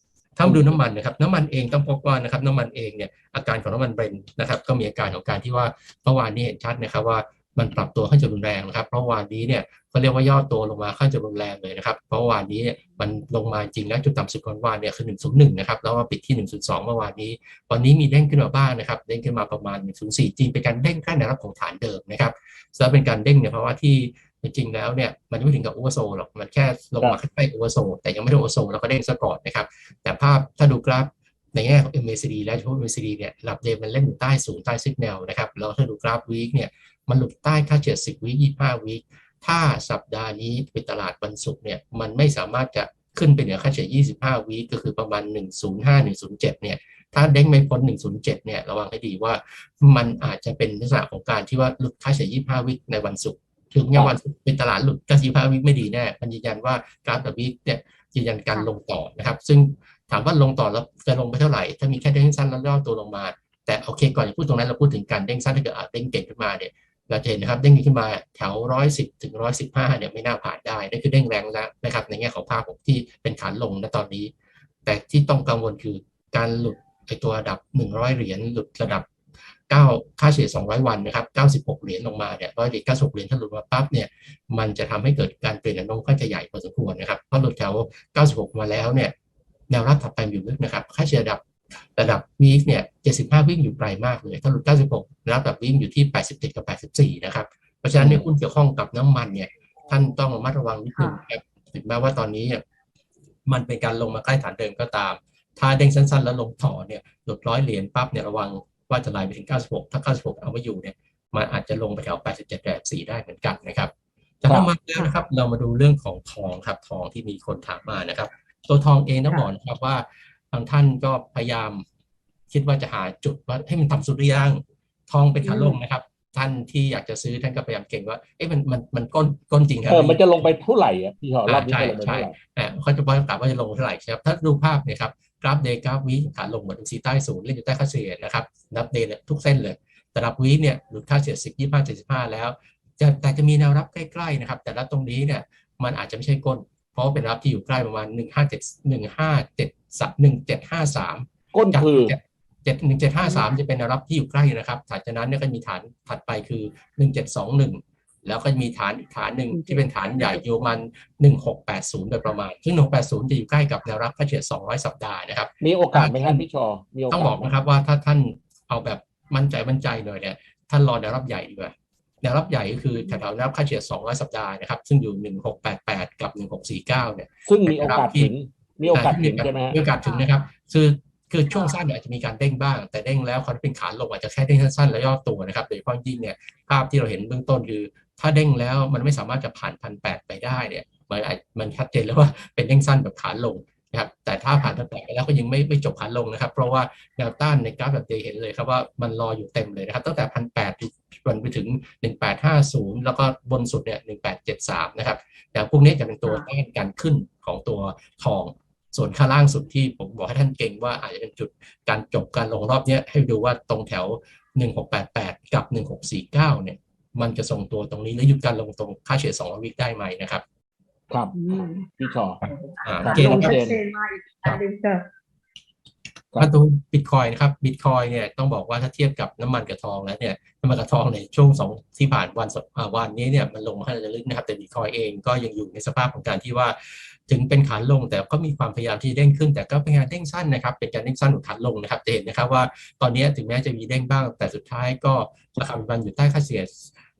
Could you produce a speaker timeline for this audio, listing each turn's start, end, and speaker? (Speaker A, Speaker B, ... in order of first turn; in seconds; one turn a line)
Speaker A: 0.3-74.3
Speaker B: 0.5-0.8
Speaker A: 74.8-79.1
Speaker A: 79.7-89.1
Speaker A: 89.7-91.4
Speaker A: 92.0-102.6
Speaker B: 98.0-98.3
Speaker C: 100.9-101.2
Speaker A: 103.5-113.9
Speaker A: 114.4-121.8
Speaker B: 114.5-114.7
Speaker A: 122.5-130.4
Speaker C: 125.4-125.8
Speaker B: 129.9-132.3
Speaker A: 131.4-166.4
Speaker B: 151.5-152.2
Speaker C: 153.2-153.5
Speaker C: 159.5-160.6
Speaker B: 165.6-167.5
Speaker A: 167.1-178.3
Speaker B: 177.4-179.8
Speaker A: 178.9-220.4
Speaker C: 181.5-181.8
Speaker B: 221.1-222.5
Speaker C: 221.3-225.1
Speaker A: 222.8-223.6
Speaker B: 223.0-223.8
Speaker A: 226.4-246.9